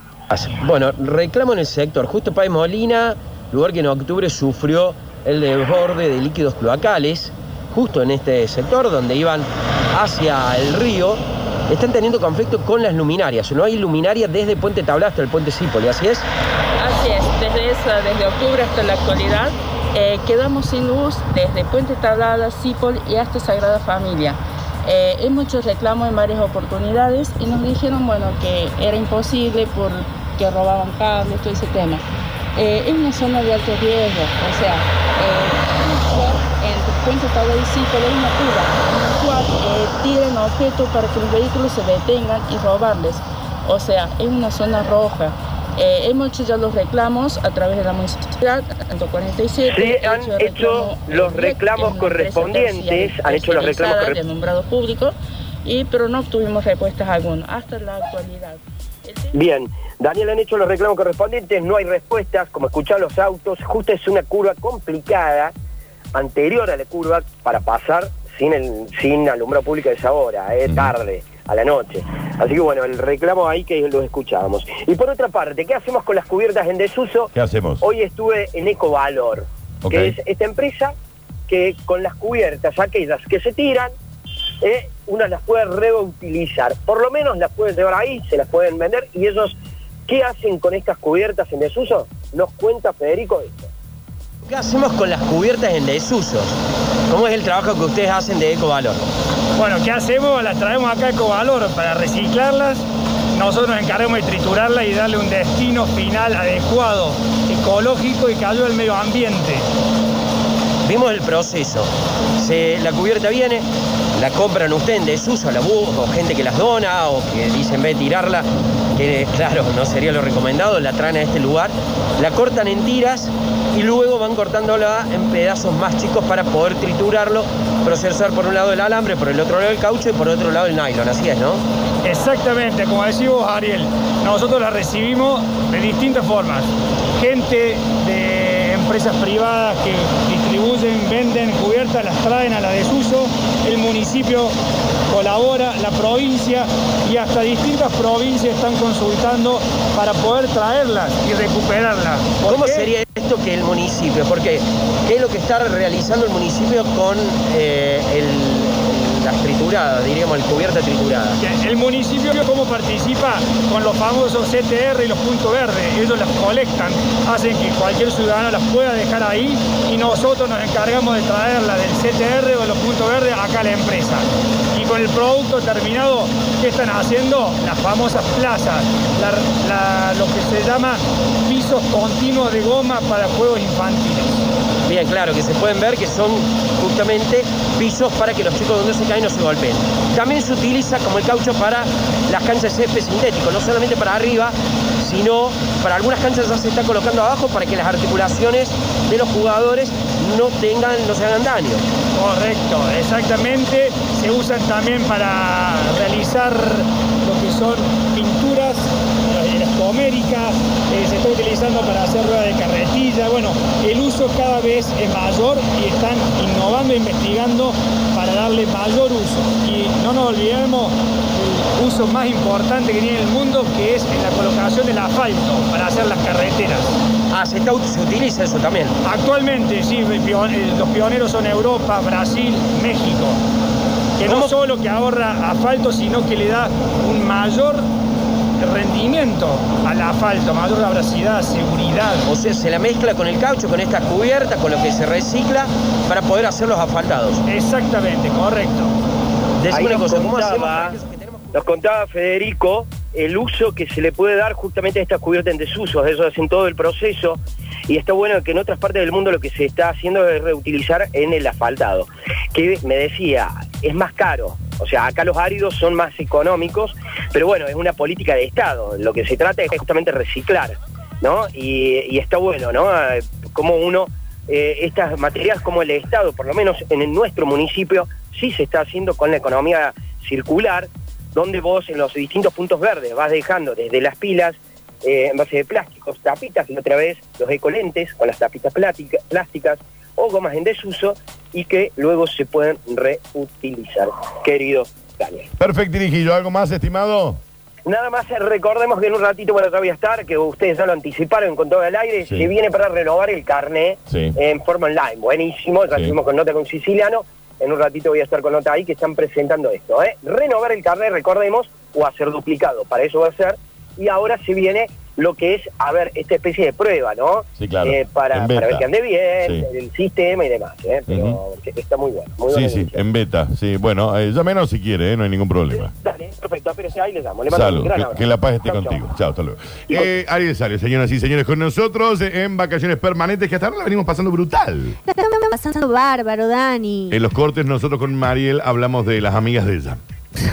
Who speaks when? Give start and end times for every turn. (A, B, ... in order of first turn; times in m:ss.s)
0:00.3-0:16.3 A
0:16.8-0:32.0 B
0:32.6-0:59.4 B
0:49.7-0:54.2 C
0:59.3-1:05.5 C
1:06.1-1:20.9 C
1:10.6-1:10.9 D
1:17.3-1:17.8 D
1:19.8-1:20.2 D
1:21.5-1:23.9 C
1:24.6-1:29.6 C
1:30.1-1:33.7 C
1:34.5-1:36.6 A
1:37.1-1:39.0 A
1:39.6-1:49.7 E
1:50.9-1:53.6 A
1:54.2-2:11.6 A
2:12.0-2:24.5 E
2:25.1-2:32.9 E
2:32.4-2:41.4 A
2:41.4-3:04.4 E
3:04.9-3:21.9 A
3:22.2-3:47.0 E
3:47.3-3:49.0 A
3:49.0-3:53.4 E
3:54.2-3:57.9 E
3:54.2-3:54.5 A
3:58.6-4:02.3 E
4:02.3-4:07.4 A
4:07.5-4:08.9 E
4:09.6-4:11.4 A
4:09.7-4:10.9 C
4:11.5-4:55.5 C
4:55.6-4:57.4 D
4:57.9-5:23.0 C
5:02.2-5:02.5 D
5:04.1-5:04.4 D
5:17.6-5:18.8 D
5:19.4-5:19.7 D
5:21.1-5:21.4 D
5:22.5-5:25.9 D
5:25.8-5:29.0 C
5:27.5-5:35.0 D
5:35.0-5:37.2 F
5:37.1-5:40.0 D